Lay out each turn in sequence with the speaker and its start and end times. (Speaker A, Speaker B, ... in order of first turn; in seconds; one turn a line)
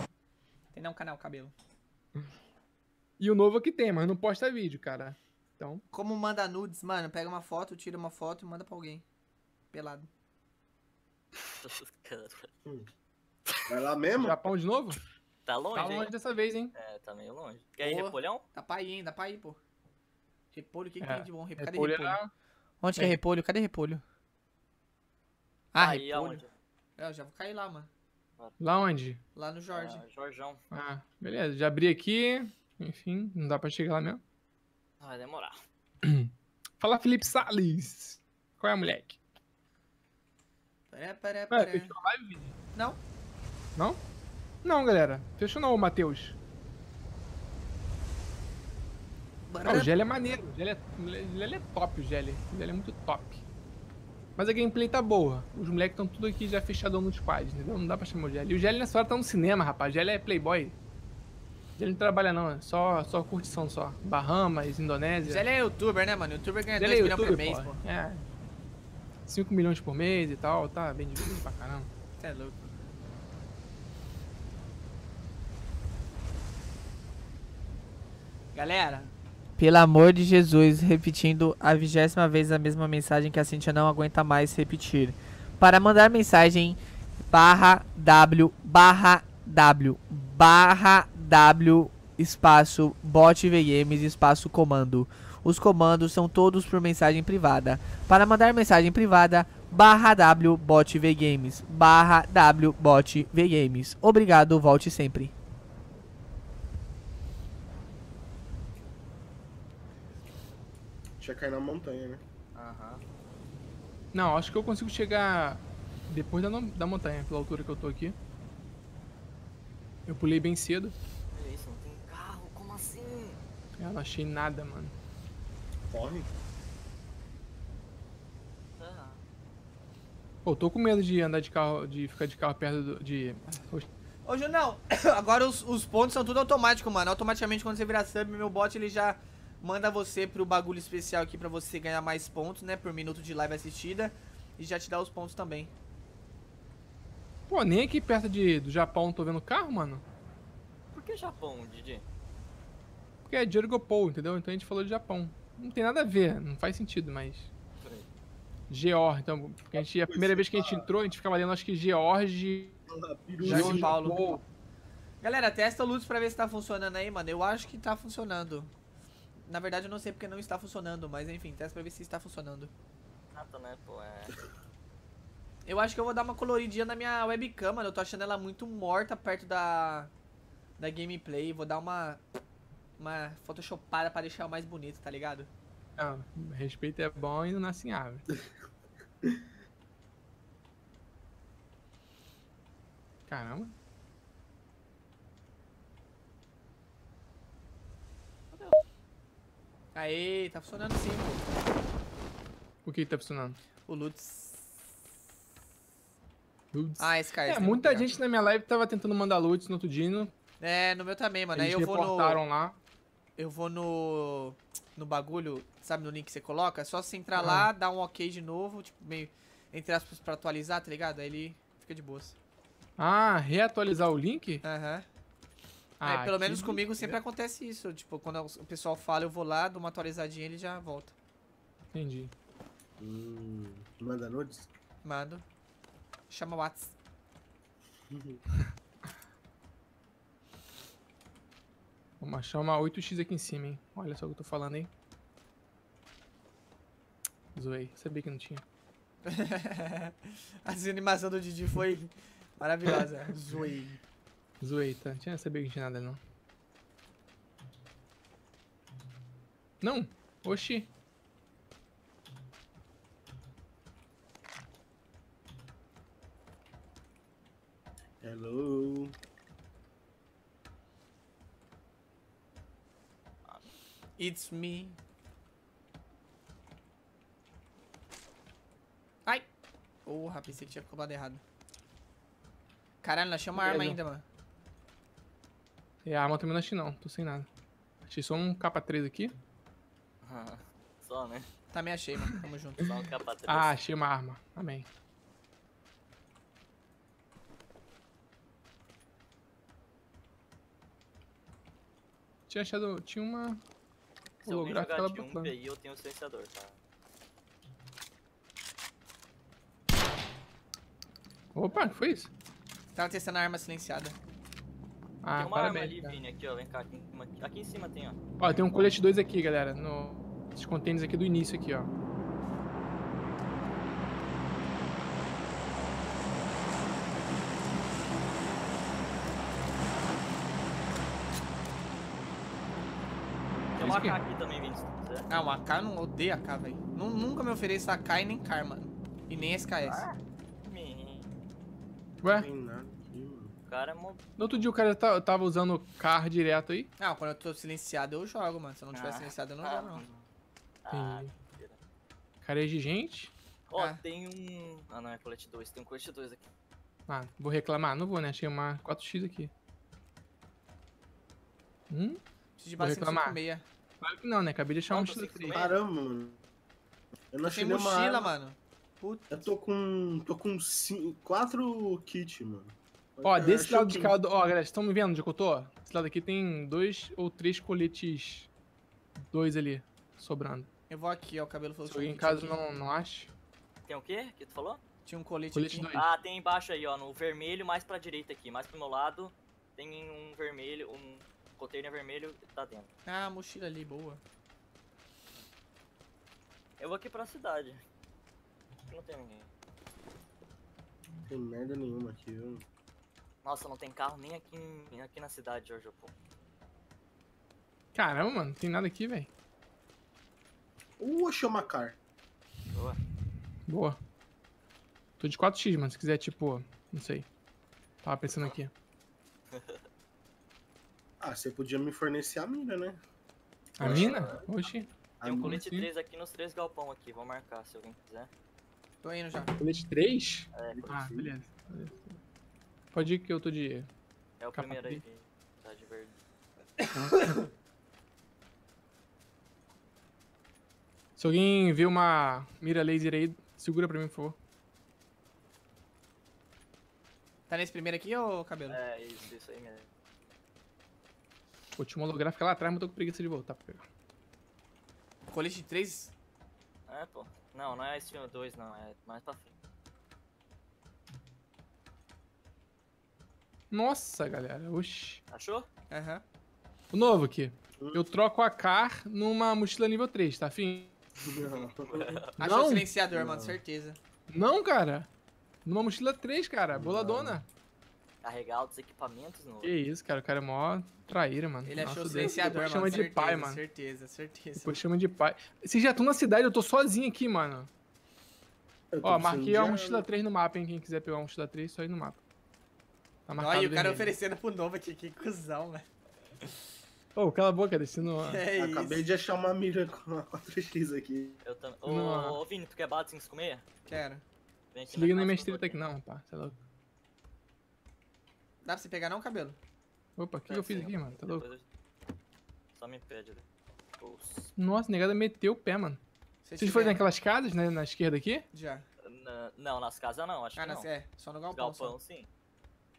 Speaker A: 0.7-1.5
Speaker B: 3.2-5.8
Speaker A: 5.9-9.0
Speaker A: 9.7-10.1
Speaker C: 11.6-12.5
Speaker D: 13.7-14.5
Speaker B: 14.1-15.0
Speaker C: 15.4-16.1
Speaker B: 15.7-16.7
Speaker C: 16.7-18.4
Speaker A: 17.8-19.6
Speaker A: 20.5-22.2
Speaker B: 21.0-22.3
Speaker A: 22.8-24.0
Speaker A: 25.7-26.4
Speaker C: 25.8-26.5
Speaker A: 27.0-27.9
Speaker B: 28.6-29.2
Speaker A: 29.3-30.0
Speaker C: 29.7-30.6
Speaker B: 30.7-34.2
Speaker C: 35.0-35.6
Speaker B: 36.0-39.2
Speaker A: 40.9-41.9
Speaker B: 41.5-42.5
Speaker A: 42.7-43.0
Speaker B: 44.6-46.4
Speaker A: 49.5-49.9
Speaker B: 49.6-53.4
Speaker B: 54.4-60.8
Speaker B: 61.8-65.4
Speaker A: 65.2-67.8
Speaker B: 66.8-68.3
Speaker B: 69.2-71.9
Speaker A: 72.2-72.6
Speaker A: 78.5-86.8
Speaker A: 87.3-105.3
Speaker D: 111.2-112.2
Speaker C: 112.5-113.0
Speaker B: 114.1-118.2
Speaker B: 120.1-120.9
Speaker C: 121.3-123.4
Speaker B: 123.8-124.9
Speaker D: 125.9-126.3
Speaker C: 128.8-129.2
Speaker B: 130.4-133.9
Speaker A: 134.2-145.7
Speaker B: 147.5-150.0
Speaker C: 150.9-152.0
Speaker B: 153.2-157.5
Speaker B: 158.7-162.8
Speaker D: 159.7-160.9
Speaker D: 162.9-163.9
Speaker B: 163.4-164.4
Speaker A: 163.4-164.2
Speaker A: 165.2-168.7
Speaker A: 169.4-172.7
Speaker C: 173.3-174.4
Speaker A: 175.7-180.1
Speaker A: 180.8-182.2
Speaker A: 183.0-185.5
Speaker B: 186.0-188.3
Speaker B: 193.3-193.7
Speaker A: 199.9-201.4
Speaker B: 202.8-203.6
Speaker A: 203.9-204.6
Speaker B: 206.7-210.3
Speaker A: 207.0-208.1
Speaker A: 210.6-212.4
Speaker B: 211.5-212.8
Speaker A: 213.4-222.3
Speaker B: 217.3-217.7
Speaker B: 223.0-224.6
Speaker A: 224.6-225.1
Speaker B: 226.0-227.2
Speaker A: 226.0-231.1
Speaker B: 231.9-232.3
Speaker D: 233.0-234.7
Speaker A: 235.0-235.4
Speaker A: 236.3-236.9
Speaker D: 238.1-238.4
Speaker B: 242.2-244.9
Speaker B: 247.5-248.6
Speaker A: 249.2-254.0
Speaker B: 254.6-256.2
Speaker B: 259.8-260.9
Speaker D: 268.2-269.2
Speaker A: 274.2-275.0
Speaker A: 280.1-281.4
Speaker A: 283.0-284.2
Speaker B: 283.5-284.0
Speaker B: 286.0-287.5
Speaker B: 288.1-289.3
Speaker C: 290.2-291.5
Speaker A: 291.7-292.9
Speaker C: 292.8-293.8
Speaker B: 293.5-294.9
Speaker B: 302.5-303.6
Speaker C: 304.4-306.7
Speaker B: 304.4-305.5
Speaker B: 311.5-312.3
Speaker A: 312.9-314.1
Speaker B: 315.2-316.2
Speaker C: 315.4-318.2
Speaker B: 318.4-321.9
Speaker C: 333.7-335.3
Speaker B: 333.8-334.2
Speaker A: 335.3-340.0
Speaker C: 339.8-341.3
Speaker D: 342.2-343.5
Speaker B: 342.2-342.5
Speaker C: 343.7-344.2
Speaker B: 344.4-346.9
Speaker A: 347.0-350.0
Speaker C: 348.9-350.2
Speaker C: 350.8-351.8
Speaker B: 350.9-351.3
Speaker B: 352.4-353.3
Speaker C: 353.7-356.4
Speaker A: 353.7-354.0
Speaker B: 357.1-359.5
Speaker B: 361.9-362.2
Speaker A: 362.6-363.6
Speaker B: 362.8-363.4
Speaker B: 364.0-365.6
Speaker C: 364.9-365.8
Speaker D: 365.5-366.4
Speaker D: 367.3-368.3
Speaker A: 367.4-369.5
Speaker D: 369.3-374.1
Speaker B: 373.2-378.5
Speaker B: 379.3-380.7
Speaker A: 380.9-382.6
Speaker B: 381.9-383.3
Speaker C: 383.9-384.8
Speaker A: 385.1-385.9
Speaker B: 385.5-386.1
Speaker C: 385.9-392.9
Speaker A: 393.1-394.2
Speaker C: 396.8-397.8
Speaker C: 398.9-399.5
Speaker D: 401.3-402.6
Speaker C: 403.4-406.1
Speaker B: 407.9-409.3
Speaker D: 411.0-411.9
Speaker C: 412.7-413.0
Speaker B: 413.7-414.0
Speaker B: 415.2-417.3
Speaker B: 418.0-418.7
Speaker C: 419.5-419.8
Speaker D: 421.2-423.0
Speaker B: 423.8-424.9
Speaker C: 423.8-424.7
Speaker D: 423.8-424.4
Speaker D: 425.2-425.6
Speaker C: 425.2-428.3
Speaker B: 425.4-425.9
Speaker A: 429.0-429.5
Speaker B: 429.6-432.2
Speaker C: 430.5-431.1
Speaker D: 430.7-431.3
Speaker B: 432.9-433.9
Speaker C: 434.4-436.1
Speaker B: 434.6-435.0
Speaker B: 436.9-437.4
Speaker B: 441.2-444.4
Speaker A: 447.5-448.8
Speaker C: 448.7-449.9
Speaker B: 451.8-453.8
Speaker A: 455.3-456.1
Speaker C: 456.9-459.5
Speaker B: 463.7-465.2
Speaker C: 465.3-465.6
Speaker A: 465.9-466.2
Speaker B: 466.9-470.9
Speaker D: 467.8-468.1
Speaker D: 471.2-472.2
Speaker C: 471.5-472.3
Speaker B: 472.4-472.9
Speaker A: 472.4-474.0
Speaker D: 473.1-473.6
Speaker B: 474.3-475.1
Speaker B: 475.6-477.4
Speaker D: 476.7-477.4
Speaker C: 478.2-479.7
Speaker B: 479.6-483.6
Speaker A: 481.6-484.8
Speaker D: 482.1-482.6
Speaker B: 484.6-487.7
Speaker D: 488.9-490.1
Speaker B: 489.0-492.2
Speaker B: 493.3-494.1
Speaker A: 493.4-495.9
Speaker B: 497.1-498.4
Speaker A: 498.2-499.0
Speaker D: 498.6-501.4
Speaker C: 501.4-503.6
Speaker B: 501.9-502.4
Speaker A: 503.9-504.2
Speaker C: 504.7-505.8
Speaker B: 504.9-506.6
Speaker A: 508.6-509.6
Speaker B: 510.2-511.4
Speaker C: 510.5-511.6
Speaker C: 512.8-513.4
Speaker C: 514.0-514.5
Speaker B: 514.6-516.0
Speaker A: 516.4-517.0
Speaker B: 516.6-518.5
Speaker A: 518.5-518.9
Speaker C: 519.0-520.9
Speaker A: 520.6-521.9
Speaker C: 521.5-522.3